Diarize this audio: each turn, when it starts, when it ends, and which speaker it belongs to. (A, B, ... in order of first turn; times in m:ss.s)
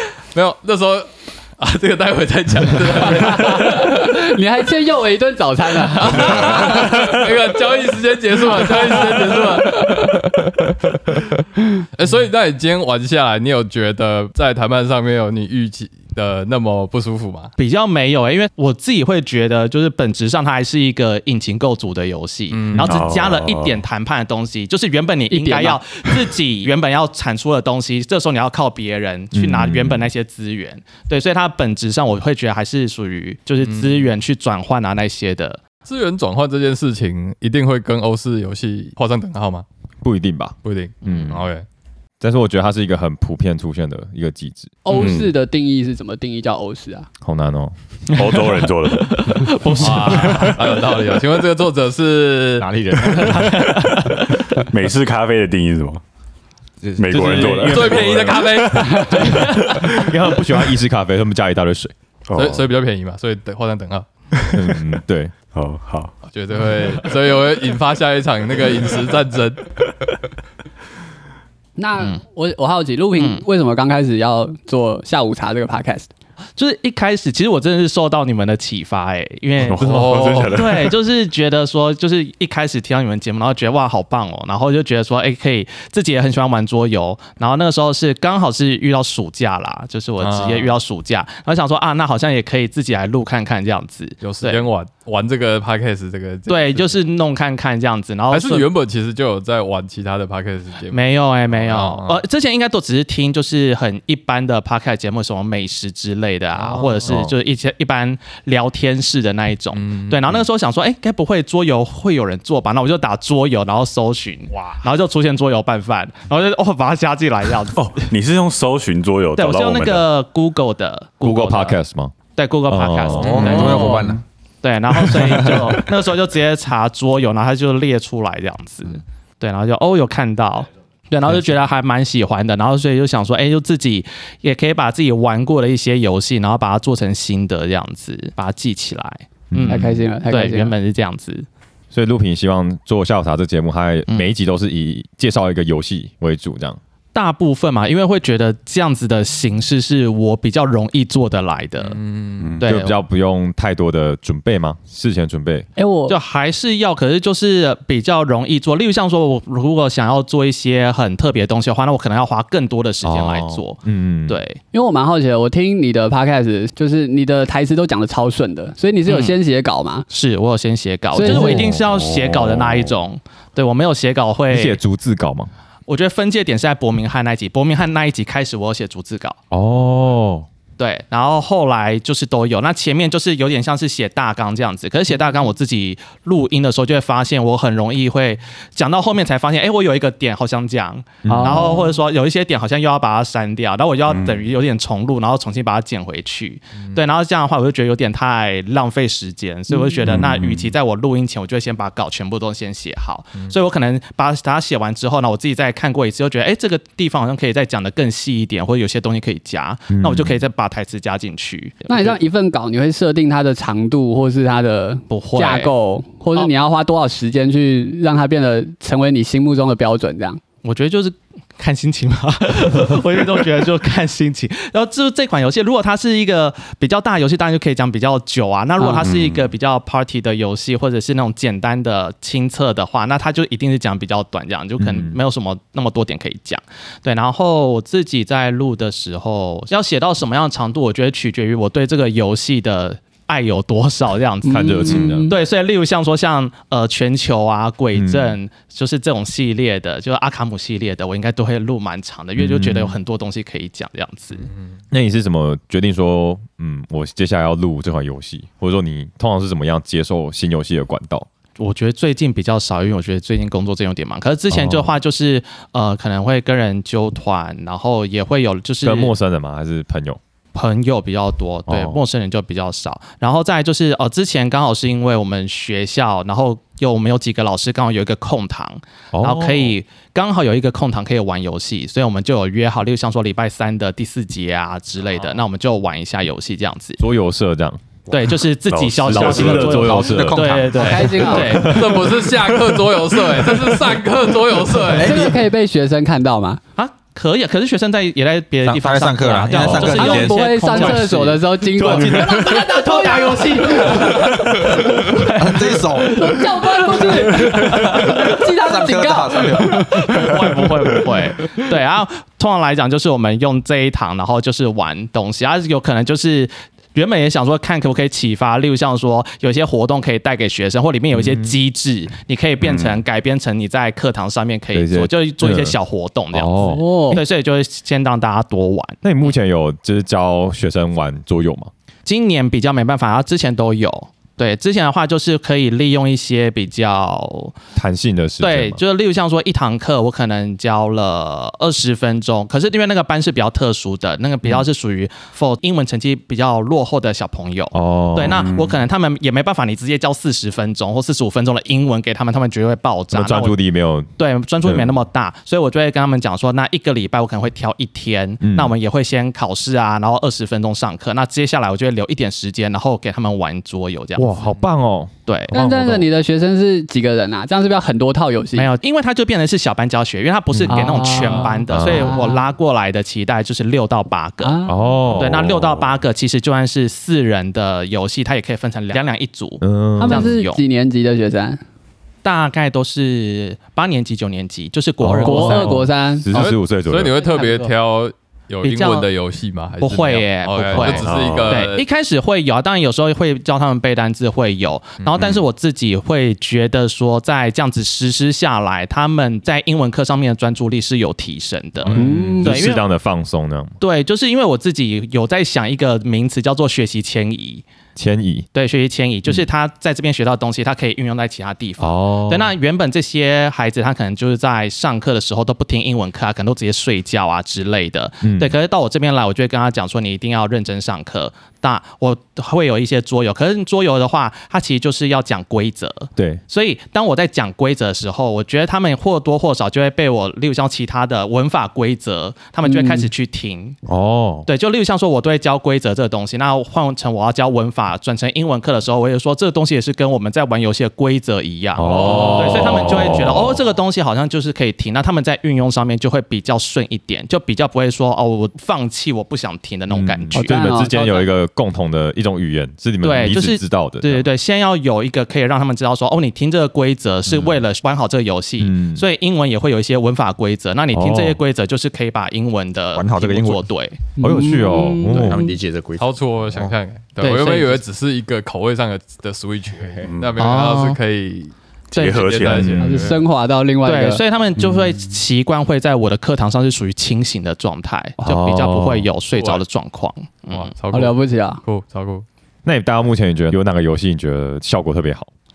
0:00.3-0:04.1 A
0:03.1-0:07.2 B
0:05.9-0:10.6 A
0:08.6-0:10.1 B
0:11.9-0:17.5 A
0:17.6-0:35.6 C
0:22.5-0:23.0 A
0:22.8-0:23.8 D
0:25.3-0:25.8 B
0:29.3-0:30.1 E
0:33.6-0:34.0 A
0:35.8-0:39.7 A
0:40.0-0:41.4 E
0:40.6-0:41.7 A
0:41.0-0:41.4 C
0:42.2-0:44.8 E
0:44.8-0:47.1 B
0:44.9-0:45.3 D
0:47.2-0:47.7 E
0:48.2-0:49.6 D
0:48.2-0:51.0 C
0:49.8-0:53.5 A
0:52.6-0:53.7 F
0:53.3-0:54.2 C
0:53.8-0:56.0 D
0:56.8-0:57.7 F
0:57.0-1:00.0 D
0:57.1-0:58.4 E
0:57.6-0:59.8 A
0:59.4-1:01.9 E
1:02.3-1:02.7 D
1:02.4-1:04.1 A
1:04.5-1:05.3 E
1:05.5-1:06.2 D
1:06.3-1:09.7 A
1:11.8-1:16.1 B
1:16.6-1:34.6 C
1:19.6-1:21.0 D
1:19.8-1:20.6 A
1:30.2-1:30.8 A
1:34.2-1:37.0 A
1:36.5-1:38.7 C
1:38.3-1:42.2 A
1:40.9-1:57.9 C
1:46.7-1:47.4 E
1:49.7-1:50.3 A
1:57.8-2:00.1 D
1:59.4-2:01.8 C
2:01.2-2:02.2 E
2:02.3-2:04.0 C
2:02.7-2:03.8 E
2:03.2-2:04.2 D
2:03.3-2:03.9 A
2:03.4-2:04.2 F
2:04.6-2:21.5 C
2:19.5-2:20.0 E
2:19.7-2:20.7 B
2:21.9-2:26.8 E
2:27.1-2:32.0 C
2:31.8-2:32.6 A
2:32.4-2:32.6 D
2:32.6-2:33.0 C
2:32.6-2:35.7 E
2:35.8-2:36.2 B
2:36.1-2:44.6 C
2:43.0-2:44.4 E
2:44.7-2:50.1 B
2:49.1-2:49.4 C
2:50.1-2:54.8 C
2:51.2-2:51.7 B
2:51.2-2:51.8 E
2:51.9-2:52.9 D
2:54.5-2:55.5 E
2:55.9-2:59.4 C
2:59.5-3:00.5 E
3:00.8-3:32.2 C
3:11.2-3:11.9 E
3:11.3-3:11.8 B
3:14.1-3:14.4 D
3:20.0-3:20.7 D
3:29.9-3:30.4 E
3:31.9-3:40.4 B
3:35.1-3:35.7 C
3:40.6-4:14.5 C
3:48.8-3:49.0 B
3:49.0-3:49.5 D
3:54.8-3:55.2 E
4:04.4-4:05.4 B
4:04.5-4:05.3 E
4:08.0-4:08.4 E
4:12.4-4:13.0 E
4:14.9-4:21.3 E
4:21.6-4:29.1 C
4:24.5-4:25.0 E
4:28.8-4:30.2 E
4:30.5-4:47.0 C
4:31.7-4:32.0 E
4:39.1-4:39.8 E
4:47.0-4:47.8 E
4:48.1-4:52.1 C
4:48.7-4:49.9 D
4:49.0-4:52.1 E
4:49.3-4:51.5 F
4:50.8-4:51.6 B
4:51.6-4:55.3 A
4:54.9-4:55.4 F
4:54.9-4:56.6 B
4:56.8-5:08.1 C
4:58.6-5:01.0 F
4:59.8-5:04.7 B
5:01.7-5:02.7 E
5:05.4-5:06.2 F
5:05.9-5:10.2 B
5:07.8-5:10.0 F
5:09.8-5:29.0 C
5:21.1-5:21.6 E
5:24.7-5:25.8 E
5:26.3-5:27.2 E
5:26.6-5:27.2 B
5:29.0-5:31.7 E
5:32.1-5:37.6 C
5:37.8-5:38.8 E
5:38.4-5:53.6 C
5:47.7-5:48.5 E
5:48.3-5:48.8 D
5:53.1-5:54.1 E
5:54.2-6:04.5 C
5:54.6-5:54.9 E
5:58.4-5:58.7 E
6:04.2-6:06.1 E
6:05.3-6:05.5 C
6:05.5-6:08.7 B
6:08.6-6:14.6 C
6:10.5-6:10.9 E
6:10.7-6:12.5 B
6:11.7-6:12.2 E
6:14.4-6:14.8 B
6:14.6-6:15.7 E
6:15.1-6:20.6 C
6:19.6-6:20.4 E
6:20.0-6:21.6 B
6:22.2-6:25.8 C
6:25.0-6:27.1 E
6:25.2-6:26.4 B
6:25.3-6:25.7 A
6:26.3-6:31.8 A
6:27.1-6:27.7 B
6:28.6-6:29.1 C
6:29.8-6:42.8 C
6:30.8-6:31.7 D
6:41.9-6:43.8 E
6:41.9-6:42.6 B
6:43.8-6:47.7 C
6:48.0-6:48.5 E
6:48.5-7:13.8 C
6:51.8-6:52.5 E
6:58.2-6:58.6 E
7:12.6-7:13.1 B
7:13.8-7:14.5 E
7:14.5-7:30.6 C
7:21.8-7:23.6 E
7:29.9-7:34.3 E
7:30.3-7:31.3 B
7:33.0-7:44.0 C
7:38.6-7:39.0 E
7:40.9-7:41.4 E
7:43.0-7:43.7 F
7:44.2-7:45.6 B
7:44.2-7:45.4 E
7:45.1-7:46.7 F
7:46.0-7:53.2 A
7:47.2-7:47.8 C
7:50.0-7:50.4 D
7:50.4-7:51.0 C
7:51.9-7:53.1 D
7:52.0-7:52.6 C
7:52.5-7:52.9 E
7:52.8-7:54.2 B
7:53.8-8:00.7 C
7:58.2-7:59.1 E
7:59.3-7:59.6 A
8:00.5-8:02.2 A
8:00.9-8:01.6 B
8:02.6-8:05.3 E